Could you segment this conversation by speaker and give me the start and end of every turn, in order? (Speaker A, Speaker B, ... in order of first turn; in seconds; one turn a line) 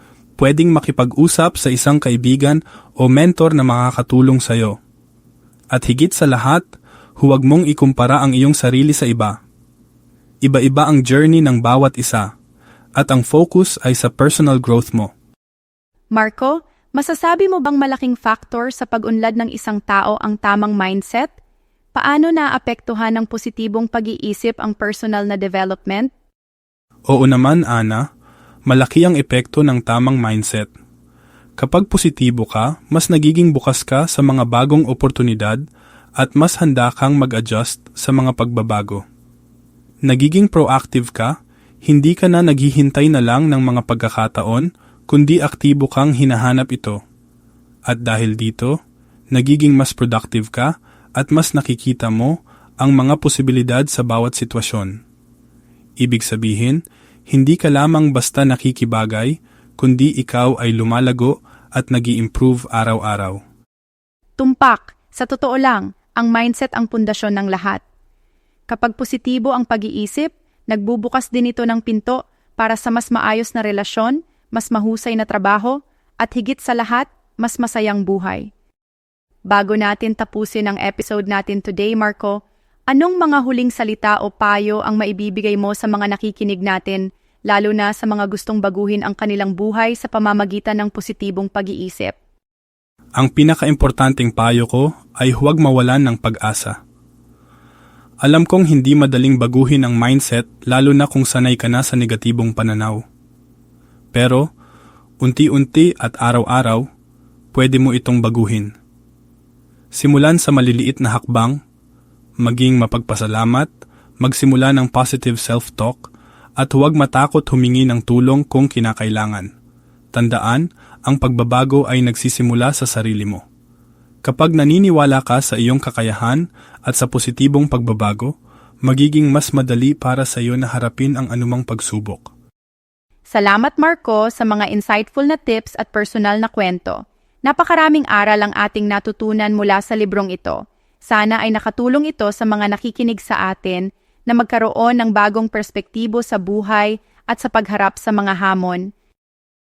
Speaker A: 0.4-4.7
Speaker A: 5.7-6.7
Speaker A: 7.2-9.3
Speaker A: 10.4-12.3
Speaker A: 13.0-15.1
Speaker B: 16.2-21.3
Speaker B: 21.9-26.1
Speaker A: 27.1-28.0
Speaker A: 28.7-30.7
Speaker A: 31.6-35.6
Speaker A: 36.2-39.0
Speaker A: 40.1-41.3
Speaker A: 41.9-47.0
Speaker A: 47.9-48.7
Speaker A: 49.3-55.0
Speaker A: 56.0-56.8
Speaker A: 57.3-63.4
Speaker B: 64.4-67.8
Speaker B: 68.7-78.5
Speaker B: 79.5-82.3
Speaker B: 82.9-92.1
Speaker A: 93.2-96.8
Speaker A: 98.2-103.0
Speaker A: 104.1-104.5
Speaker A: 105.2-106.8
Speaker A: 107.5-108.7
Speaker A: 110.0-111.6
Speaker A: 112.4-113.7
Speaker A: 114.2-119.5
Speaker A: 120.1-123.4
Speaker A: 124.2-128.3
Speaker A: 128.9-132.3
Speaker B: 133.3-148.8